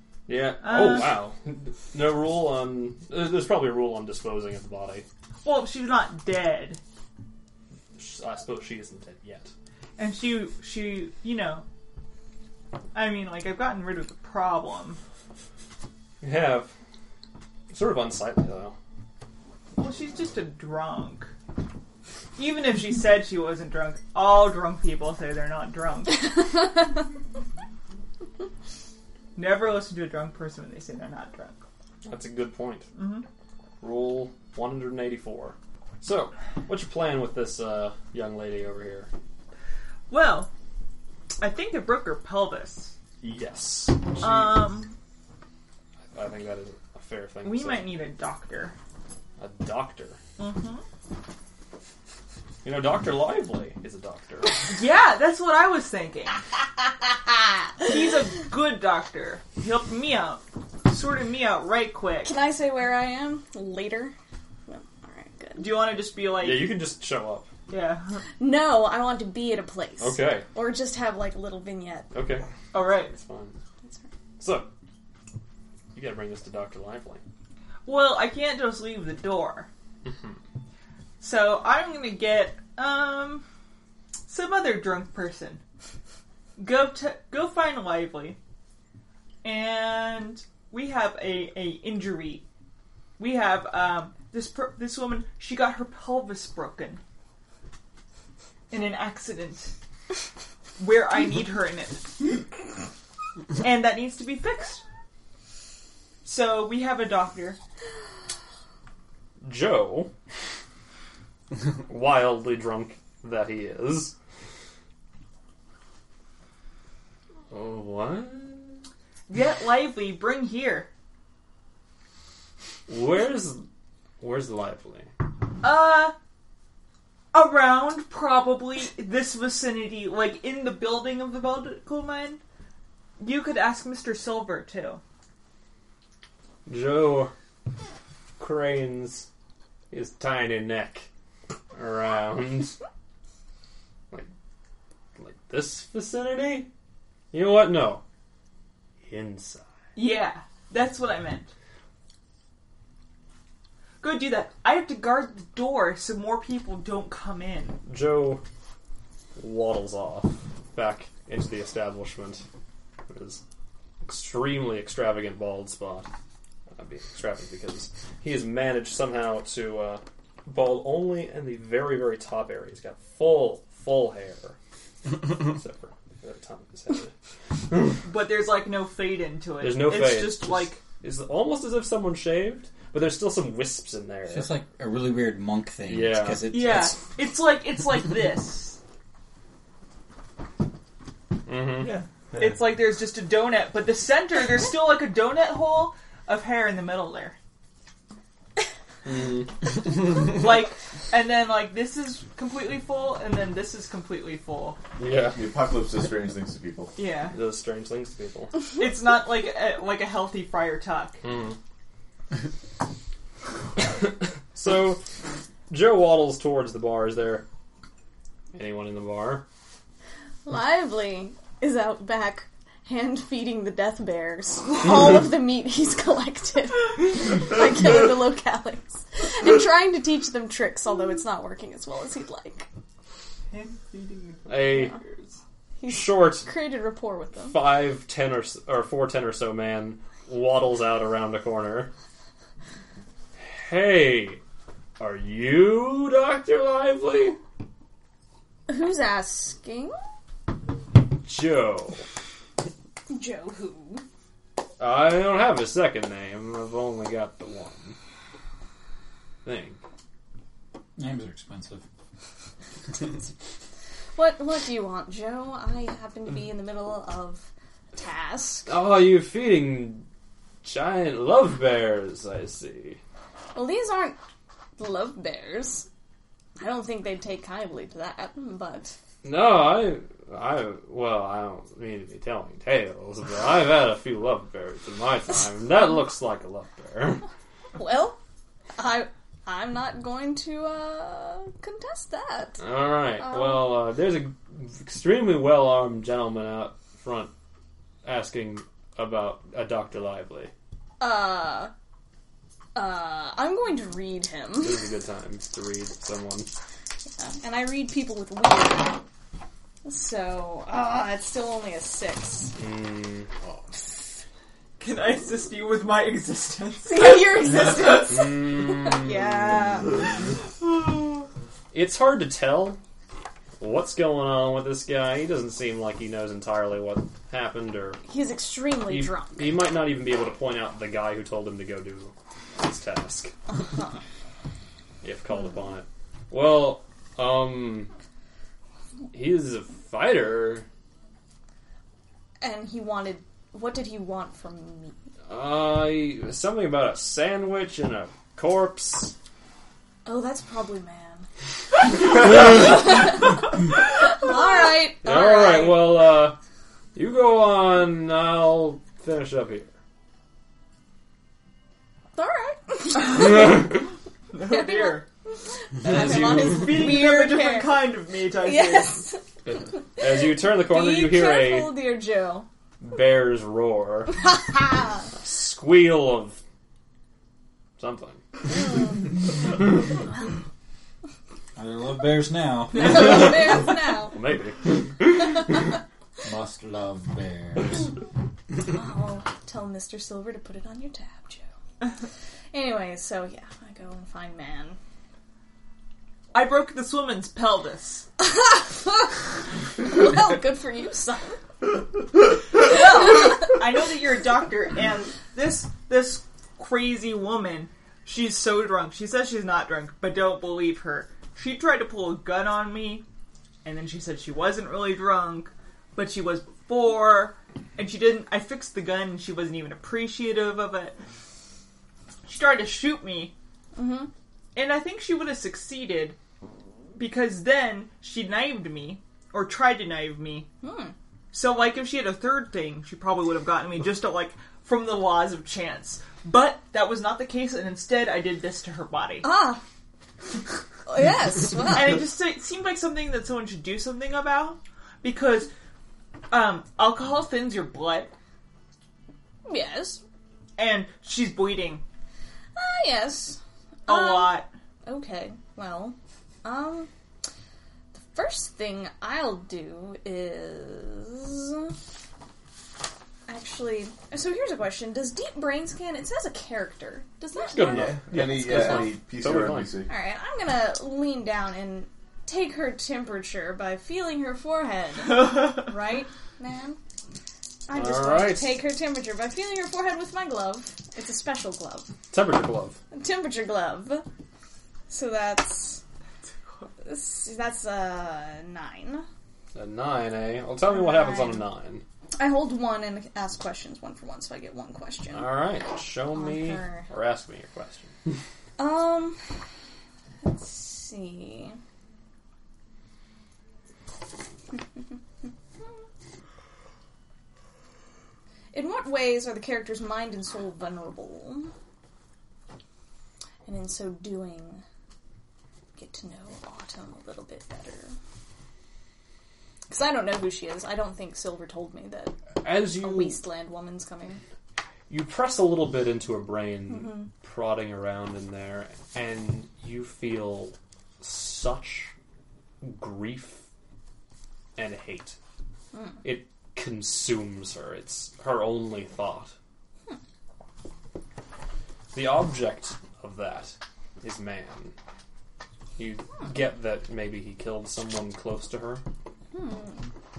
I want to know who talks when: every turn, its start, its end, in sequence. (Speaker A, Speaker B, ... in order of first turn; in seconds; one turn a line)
Speaker A: 0.3-5.0
Speaker B: 0.6-1.2
Speaker B: 5.4-6.8
Speaker A: 7.9-9.5
Speaker B: 10.0-11.6
Speaker B: 12.9-15.0
Speaker A: 16.2-16.7
Speaker A: 17.7-18.7
Speaker B: 19.8-21.3
Speaker B: 22.4-26.4
Speaker B: 29.3-31.6
Speaker A: 32.0-32.9
Speaker B: 32.9-33.2
Speaker A: 33.8-39.1
Speaker B: 40.1-40.5
Speaker B: 41.4-43.0
Speaker A: 43.2-44.7
Speaker B: 44.2-44.9
Speaker A: 46.1-47.9
Speaker B: 47.4-48.7
Speaker A: 49.4-50.2
Speaker B: 50.4-50.8
Speaker A: 52.6-54.7
Speaker B: 54.7-56.4
Speaker B: 57.8-62.3
Speaker C: 62.2-64.1
Speaker C: 64.7-66.0
Speaker B: 65.6-66.8
Speaker A: 66.4-67.5
Speaker B: 67.7-68.2
Speaker C: 68.4-72.1
Speaker A: 70.0-70.5
Speaker A: 72.1-72.5
Speaker B: 72.7-73.2
Speaker A: 73.1-73.5
Speaker A: 74.4-74.7
Speaker A: 75.9-77.2
Speaker B: 77.8-79.7
Speaker A: 80.0-80.4
Speaker B: 81.2-83.4
Speaker B: 84.3-85.6
Speaker B: 86.6-88.4
Speaker B: 89.4-92.4
Speaker B: 93.2-97.0
Speaker B: 98.7-99.7
Speaker B: 100.8-102.5
Speaker B: 103.6-104.8
Speaker B: 106.2-107.6
Speaker A: 109.4-110.1
Speaker A: 111.6-114.1
Speaker A: 117.5-118.8
Speaker B: 119.3-120.9
Speaker A: 122.9-123.7
Speaker A: 124.2-125.1
Speaker B: 125.6-126.1
Speaker B: 127.3-132.4
Speaker B: 133.2-135.0
Speaker A: 136.7-137.3
Speaker A: 138.4-139.3
Speaker A: 139.9-141.1
Speaker A: 141.7-142.8
Speaker A: 145.2-146.7
Speaker A: 147.3-148.0
Speaker A: 149.0-149.7
Speaker B: 149.9-151.5
Speaker B: 154.0-157.8
Speaker A: 157.8-158.4
Speaker A: 159.3-162.4
Speaker A: 163.1-163.4
Speaker A: 164.0-166.1
Speaker A: 166.7-174.6
Speaker A: 175.1-177.1
Speaker A: 177.7-178.0
Speaker B: 178.0-180.8
Speaker A: 179.6-184.5
Speaker D: 184.3-187.0
Speaker A: 185.8-186.5
Speaker B: 186.5-188.8
Speaker A: 191.4-192.0
Speaker B: 192.4-197.3
Speaker A: 199.0-199.7
Speaker B: 200.2-204.8
Speaker A: 205.0-205.4
Speaker E: 205.3-206.9
Speaker B: 206.9-207.3
Speaker A: 207.3-208.6
Speaker B: 208.8-211.2
Speaker A: 211.2-211.6
Speaker A: 213.9-215.0
Speaker A: 215.7-217.4
Speaker A: 218.5-219.4
Speaker C: 220.4-232.7
Speaker B: 233.5-235.4
Speaker A: 234.4-235.0
Speaker C: 235.8-237.7
Speaker A: 235.9-236.5
Speaker A: 237.5-241.9
Speaker A: 243.4-244.4
Speaker A: 245.0-247.4
Speaker C: 248.7-249.9
Speaker A: 251.2-252.1
Speaker C: 253.1-254.0
Speaker A: 254.8-257.9
Speaker A: 259.4-259.8
Speaker D: 261.0-261.8
Speaker C: 264.1-268.7
Speaker A: 268.6-270.1
Speaker A: 270.6-273.0
Speaker C: 273.5-274.2
Speaker C: 274.8-275.9
Speaker C: 276.6-278.9
Speaker A: 279.2-287.2
Speaker C: 287.8-288.2
Speaker C: 288.8-292.6
Speaker A: 292.6-297.3
Speaker C: 293.2-293.7
Speaker A: 298.0-300.5
Speaker C: 301.0-301.7
Speaker C: 302.7-304.8
Speaker A: 304.6-306.5
Speaker C: 307.2-309.0
Speaker C: 309.8-312.5
Speaker A: 312.6-313.3
Speaker B: 314.8-317.6
Speaker C: 316.9-320.2
Speaker A: 318.1-319.3
Speaker A: 321.7-322.8
Speaker A: 323.6-328.0
Speaker C: 328.1-329.6
Speaker A: 328.9-333.3
Speaker C: 333.5-334.0
Speaker A: 335.0-337.9
Speaker A: 339.1-340.6
Speaker C: 342.4-345.0
Speaker A: 345.3-349.1
Speaker C: 350.0-351.2
Speaker C: 351.9-355.9
Speaker A: 355.0-356.4
Speaker A: 356.9-359.7
Speaker C: 362.1-369.2
Speaker B: 364.3-365.1
Speaker A: 365.8-366.6
Speaker B: 365.9-369.0
Speaker A: 369.4-371.8
Speaker C: 370.0-372.5
Speaker A: 372.8-374.2
Speaker C: 374.4-375.1
Speaker A: 375.2-376.4
Speaker A: 377.8-378.2
Speaker C: 378.5-379.3
Speaker D: 381.6-383.1
Speaker C: 382.7-384.2
Speaker A: 384.1-385.1
Speaker D: 386.2-387.8
Speaker C: 388.6-391.4
Speaker C: 392.5-394.8
Speaker B: 396.3-398.1
Speaker C: 398.2-399.2
Speaker C: 399.8-401.4
Speaker C: 402.6-403.5
Speaker B: 402.6-413.0
Speaker B: 413.6-421.0
Speaker B: 422.2-423.3
Speaker C: 423.7-424.1
Speaker B: 424.5-426.2
Speaker B: 426.9-430.5
Speaker C: 430.6-430.9
Speaker B: 431.3-439.3
Speaker C: 439.2-439.6
Speaker C: 440.9-442.0
Speaker B: 441.7-445.5
Speaker B: 446.3-448.1
Speaker C: 449.4-450.0
Speaker B: 450.6-451.8
Speaker C: 452.6-456.9
Speaker B: 453.9-454.5
Speaker C: 457.9-461.7
Speaker C: 463.3-468.9
Speaker A: 467.4-469.7
Speaker E: 467.6-469.9
Speaker C: 469.9-476.8
Speaker C: 477.7-481.9
Speaker A: 477.7-478.6
Speaker A: 482.1-482.8
Speaker C: 482.9-484.0
Speaker C: 484.9-485.8
Speaker C: 486.8-489.1
Speaker A: 489.5-491.8
Speaker C: 490.7-491.4
Speaker C: 492.1-495.3
Speaker A: 495.1-497.9
Speaker C: 496.1-496.9
Speaker C: 498.6-499.2
Speaker C: 500.2-501.6
Speaker C: 508.5-511.5
Speaker C: 513.5-514.6
Speaker C: 515.8-517.9
Speaker C: 519.7-524.2
Speaker A: 522.4-523.2
Speaker A: 524.9-531.9
Speaker C: 526.7-527.1
Speaker A: 532.6-533.4
Speaker A: 534.5-535.2
Speaker C: 535.7-536.0
Speaker A: 536.0-539.3
Speaker A: 541.9-544.7
Speaker A: 545.8-548.8
Speaker C: 549.3-549.9